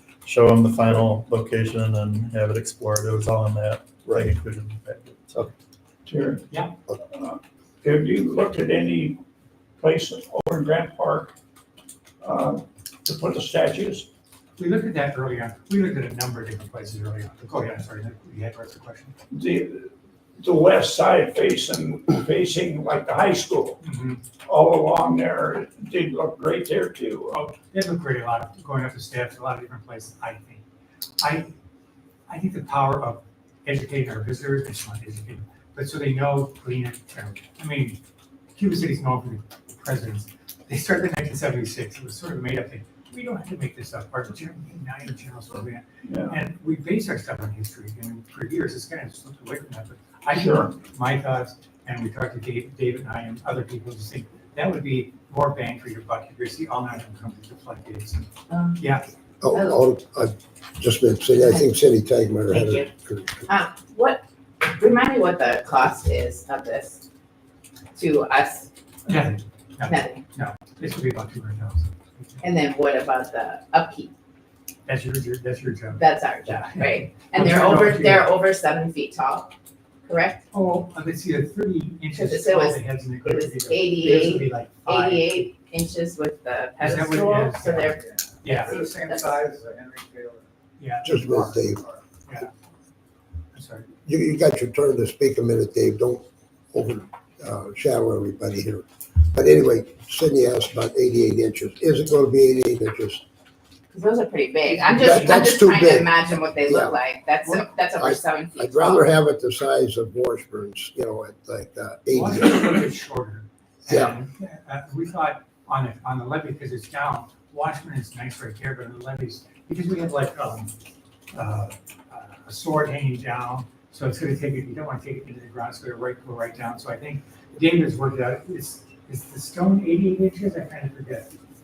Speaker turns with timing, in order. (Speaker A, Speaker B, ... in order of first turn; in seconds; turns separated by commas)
Speaker A: 0.2-5.5, Speaker B: 6.0-9.2, Speaker B: 9.8-11.3, Speaker B: 12.2-14.1, Speaker C: 14.6-19.1, Speaker B: 19.3-23.8, Speaker C: 23.8-24.2, Speaker B: 24.4-27.5, Speaker C: 27.6-30.6, Speaker C: 31.2-31.5, Speaker C: 32.3-38.0, Speaker C: 38.5-59.1, Speaker B: 46.0-46.4, Speaker B: 50.3-50.7, Speaker D: 59.4-63.5, Speaker E: 59.5-59.8, Speaker E: 62.5-62.9, Speaker E: 63.5-67.0, Speaker E: 67.9-68.7, Speaker C: 69.1-72.4, Speaker E: 69.8-70.2, Speaker E: 72.4-74.1, Speaker C: 74.8-78.3, Speaker E: 76.0-79.5, Speaker E: 80.0-80.4, Speaker C: 80.5-85.5, Speaker E: 82.1-88.2, Speaker C: 86.8-88.8, Speaker F: 88.0-90.5, Speaker E: 88.8-89.4, Speaker C: 90.8-91.7, Speaker D: 91.0-91.8, Speaker F: 91.8-92.0, Speaker C: 92.2-92.5, Speaker C: 93.5-93.9, Speaker D: 94.0-103.2, Speaker E: 103.9-109.1, Speaker C: 104.7-105.4, Speaker D: 104.9-107.0, Speaker D: 108.0-112.9, Speaker C: 112.1-120.7, Speaker D: 113.8-114.2, Speaker C: 121.3-131.3